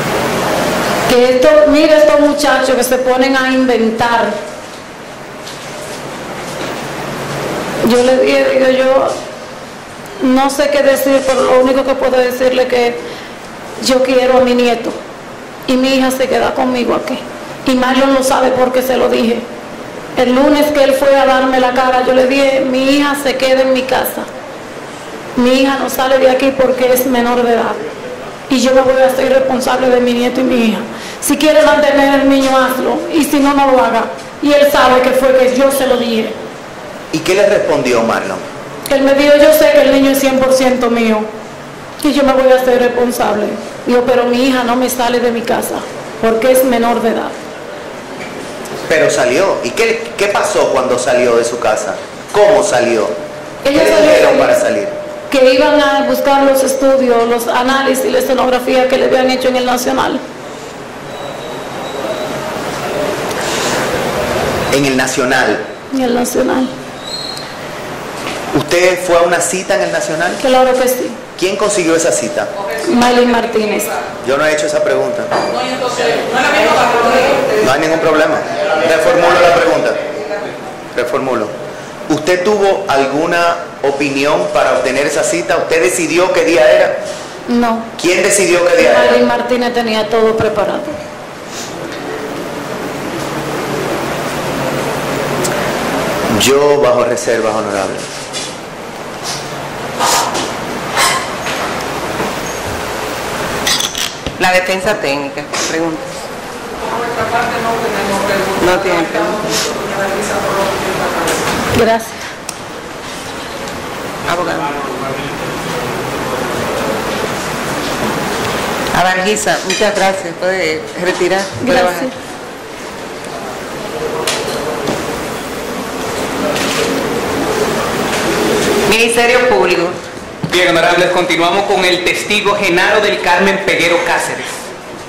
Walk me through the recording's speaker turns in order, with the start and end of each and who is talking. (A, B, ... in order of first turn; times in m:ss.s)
0:01.1-0:04.4 A
0:07.8-0:09.1 A
0:10.2-0:13.0 A
0:13.8-0:15.0 A
0:15.7-0:19.4 A
0:20.2-0:24.3 A
0:25.4-0:27.8 A
0:28.5-0:36.4 A
0:37.1-0:38.4 B
0:38.9-0:41.3 A
0:42.0-0:47.3 A
0:48.9-0:53.1 B
0:53.6-0:54.6 A
0:53.7-0:54.9 B
0:55.3-1:00.2 A
1:04.7-1:05.6 B
1:05.9-1:06.7 A
1:08.5-1:10.4 B
1:10.4-1:11.2 A
1:11.4-1:12.5 B
1:12.5-1:14.1 C
1:12.9-1:13.9 A
1:14.2-1:15.3 B
1:15.5-1:17.7 C
1:16.6-1:17.5 D
1:17.6-1:20.0 B
1:21.0-1:21.5 B
1:22.1-1:27.0 B
1:27.5-1:27.9 A
1:28.0-1:29.2 B
1:28.8-1:31.0 A
1:36.3-1:38.0 B
1:44.4-1:46.1 D
1:46.8-1:51.6 C
1:48.6-1:49.4 D
1:51.7-1:52.2 A
1:54.2-1:54.8 D
1:58.9-2:02.1 D
2:01.6-2:02.1 A
2:08.9-2:10.0 D
2:10.5-2:14.5 E